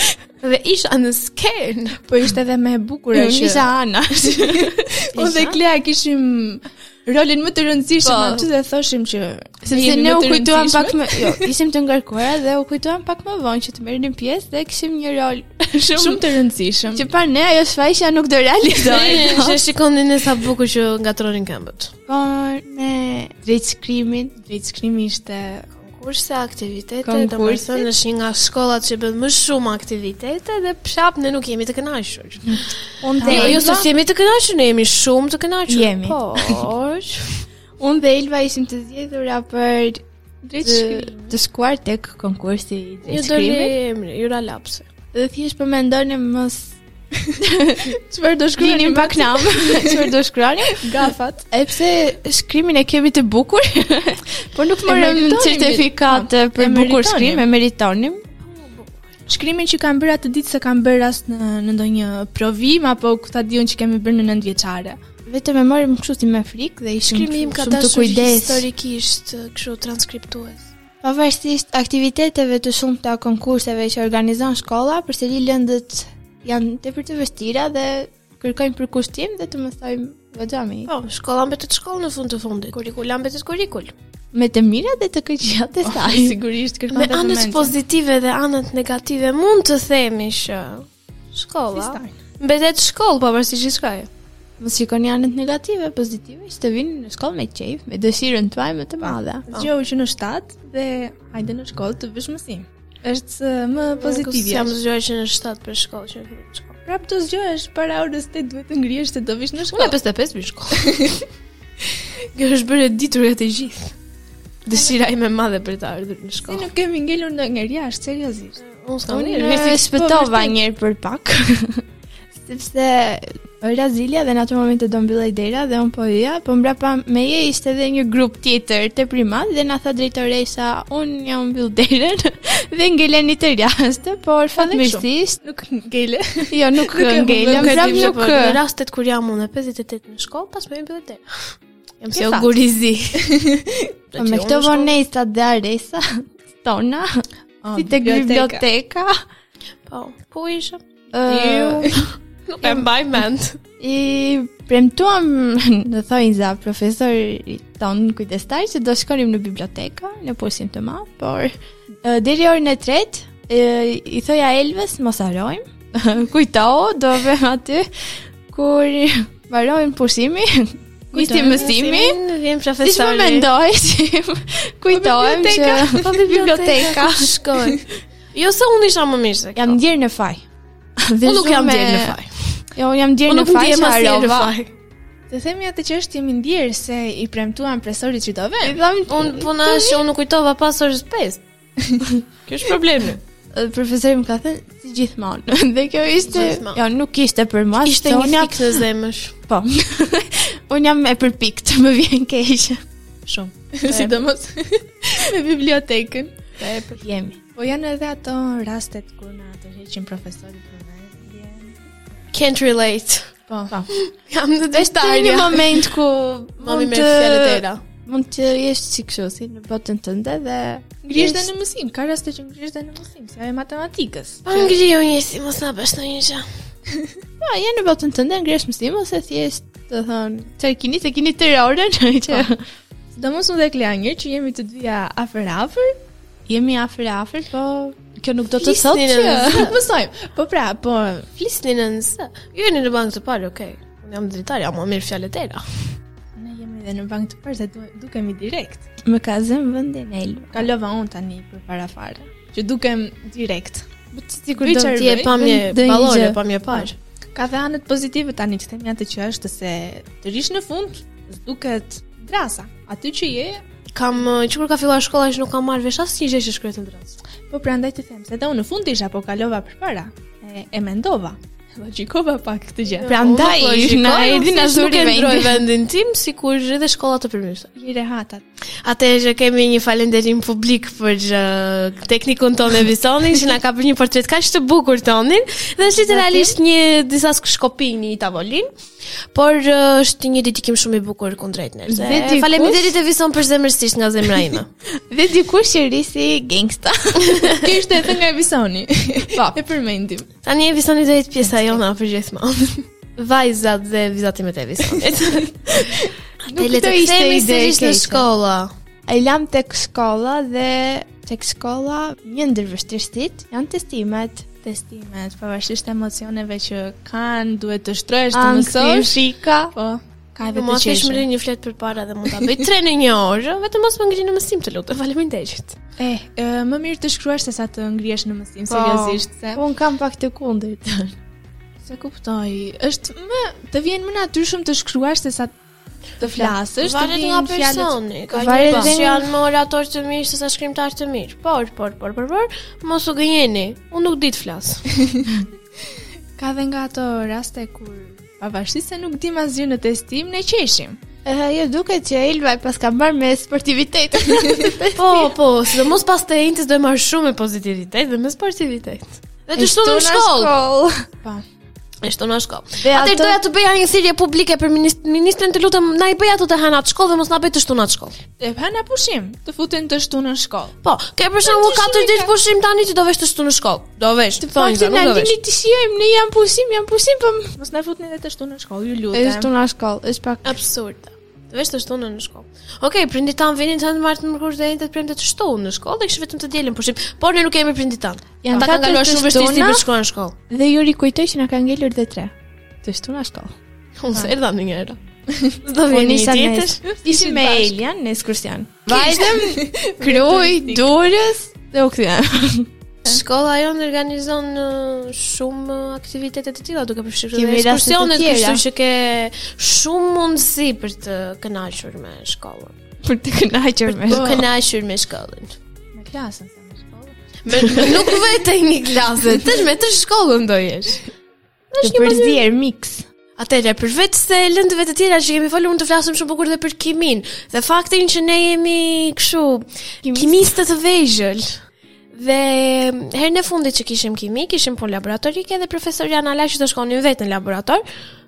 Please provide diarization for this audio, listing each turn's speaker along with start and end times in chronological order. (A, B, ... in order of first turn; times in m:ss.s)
0:00.4-0:02.0 A
0:02.1-0:03.7 B
0:03.1-0:05.4 C
0:04.4-0:11.5 B
0:05.2-0:05.6 A
0:08.0-0:08.4 A
0:09.6-0:16.2 C
0:15.9-0:17.0 B
0:16.9-0:19.6 C
0:18.8-0:21.9 A
0:22.1-0:24.3 C
0:24.4-0:25.6 B
0:25.7-0:32.7 A
0:27.0-0:27.9 C
0:33.0-0:33.8 C
0:33.1-0:33.9 B
0:33.2-0:37.2 A
0:35.7-0:36.6 C
0:37.8-0:40.0 C
0:40.4-0:41.3 B
0:40.6-0:43.7 C
0:43.0-0:44.8 A
0:45.1-0:46.8 C
0:47.4-0:47.9 C
0:48.0-0:50.1 B
0:48.6-0:50.8 C
0:50.7-0:51.4 B
0:51.5-0:58.2 C
0:54.8-0:57.4 B
0:58.4-0:59.0 A
0:59.3-1:05.0 B
1:05.2-1:08.6 C
1:07.0-1:10.6 A
1:11.0-1:20.9 C
1:20.9-1:23.9 A
1:24.3-1:26.4 C
1:25.8-1:27.8 B
1:26.9-1:34.1 A
1:31.7-1:32.1 B
1:34.6-1:39.4 C
1:39.5-1:44.7 B
1:44.0-1:46.8 A
1:46.8-1:49.9 B
1:49.7-1:51.0 A
1:50.9-1:51.2 B
1:52.3-1:53.9 A
1:54.6-1:56.7 A
1:56.5-1:58.6 B
1:58.6-1:59.9 A
1:59.1-2:01.8 C
1:59.4-2:00.6 B
2:02.4-2:15.4 C
2:14.5-2:18.2 B
2:16.5-2:18.6 C
2:17.5-2:23.2 A
2:22.1-2:22.5 B
2:23.2-2:23.9 B
2:24.1-2:25.0 A
2:24.2-2:27.1 C
2:27.6-2:28.6 B
2:27.7-2:29.1 C
2:29.8-2:30.8 A
2:31.1-2:32.0 C
2:31.3-2:32.0 B
2:32.0-2:33.6 A
2:32.6-2:32.9 C
2:33.8-2:41.5 C
2:42.0-2:47.8 C
2:48.5-2:52.2 C
2:51.1-2:51.6 B
2:51.3-2:53.5 A
2:52.8-2:57.3 C
2:54.9-2:56.0 B
2:55.3-2:59.8 A
2:59.6-3:00.4 C
3:01.1-3:02.2 C
3:01.2-3:02.6 A
3:02.8-3:04.5 C
3:03.3-3:04.7 A
3:05.3-3:08.8 B
3:08.6-3:10.0 C
3:09.1-3:11.4 A
3:12.5-3:13.2 A
3:13.5-3:18.8 C
3:16.2-3:16.8 A
3:17.8-3:19.3 A
3:19.5-3:22.8 C
3:23.3-3:26.8 B
3:23.8-3:24.2 A
3:27.0-3:27.4 C
3:27.5-3:31.8 B
3:32.3-3:33.3 A
3:33.5-3:33.8 B
3:33.9-3:35.9 A
3:34.7-3:41.5 C
3:36.6-3:37.8 A
3:41.0-3:44.8 B
3:44.4-3:46.4 A
3:47.4-3:52.6 C
3:53.2-3:55.9 B
3:56.5-3:59.2 C
3:58.5-3:59.8 A
3:59.0-4:01.3 B
4:01.4-4:05.6 A
4:06.4-4:08.8 B
4:09.0-4:10.7 C
4:10.5-4:13.9 B
4:14.1-4:16.9 C
4:14.6-4:15.4 B
4:14.9-4:16.9 A
4:17.3-4:23.6 B
4:23.9-4:27.2 A
4:27.5-4:33.1 B
4:33.0-4:37.7 A
4:33.0-4:35.7 C
4:37.8-4:38.4 B
4:38.8-4:48.7 A
4:46.0-4:46.6 C
4:49.3-4:54.7 A
4:51.9-4:52.9 C
4:55.1-4:57.8 C
4:57.5-5:00.3 B
5:00.4-5:08.7 A
5:06.5-5:08.3 C
5:09.1-5:14.4 C
5:14.6-5:19.2 B
5:18.3-5:19.7 C
5:19.7-5:21.2 B
5:20.5-5:25.8 A
5:26.0-5:29.6 B
5:28.7-5:29.2 A
5:29.5-5:31.1 C
5:31.8-5:35.5 B
5:36.2-5:38.0 B
5:36.3-5:36.5 C
5:36.8-5:44.8 A
5:38.3-5:39.3 C
5:38.6-5:38.9 B
5:46.4-5:51.0 B
5:51.2-5:55.4 C
5:55.0-6:00.6 A
5:59.6-6:01.0 C
6:02.0-6:08.1 A
6:02.8-6:03.4 C
6:08.4-6:10.7 B
6:10.8-6:15.4 A
6:11.5-6:12.1 C
6:11.6-6:12.2 B
6:14.4-6:17.5 C
6:17.6-6:19.5 B
6:19.1-6:20.5 C
6:20.4-6:30.3 A
6:28.4-6:29.9 C
6:30.5-6:32.3 C
6:32.8-6:33.5 C
6:34.0-6:35.0 A
6:35.6-6:37.0 A
6:35.9-6:42.7 C
6:37.0-6:37.7 B
6:38.9-6:40.9 B
6:43.0-6:52.7 A
6:47.3-6:48.6 C
6:53.0-6:54.3 C
6:53.9-6:55.5 A
6:54.1-6:54.4 B
6:55.9-6:57.2 B
6:57.4-7:01.0 A
7:01.7-7:02.4 A
7:01.8-7:03.0 C
7:03.4-7:11.6 A
7:10.0-7:10.4 C
7:12.1-7:17.8 A